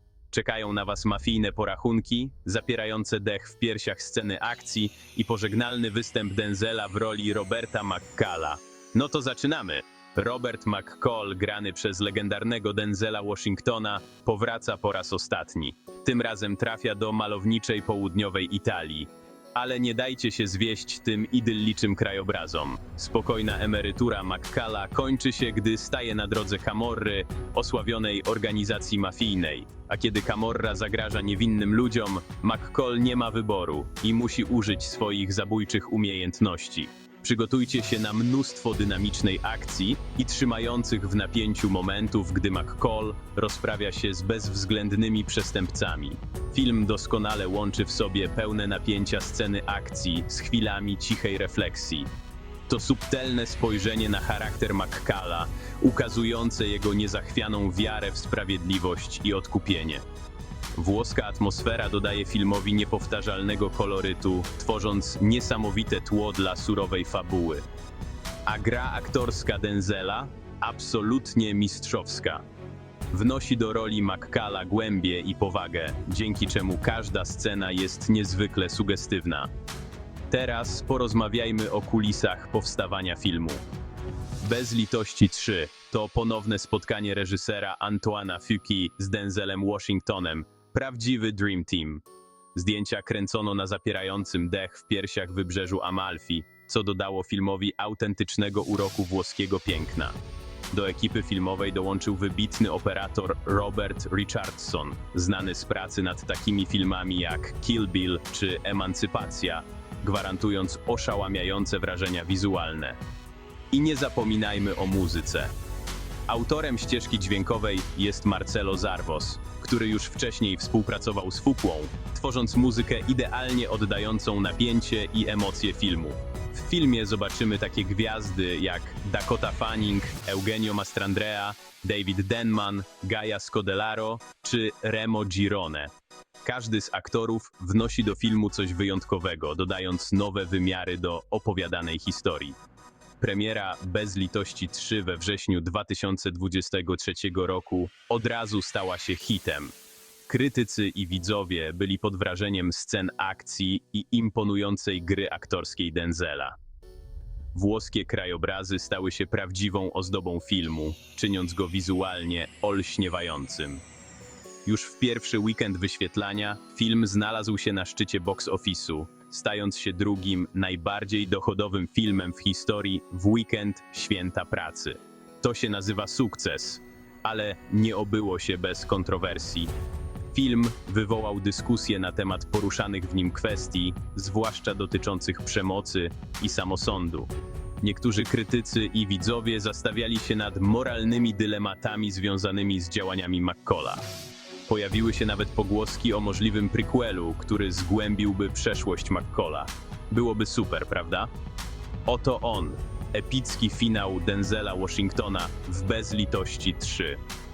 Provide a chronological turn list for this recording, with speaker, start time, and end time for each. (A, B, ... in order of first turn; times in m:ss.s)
0:00.3-0:52.1 A
0:52.7-1:00.0 A
1:00.7-1:07.6 A
1:08.4-1:12.4 A
1:13.1-1:19.5 A
1:20.3-1:23.6 A
1:24.4-1:40.2 A
1:40.7-1:53.0 A
1:53.7-1:55.5 A
1:56.3-2:15.9 A
2:16.4-2:22.6 A
2:23.2-2:29.7 A
2:30.3-2:36.6 A
2:37.5-2:43.8 A
2:44.6-2:59.7 A
3:00.3-3:14.0 A
3:14.6-3:21.3 A
3:22.0-3:27.2 A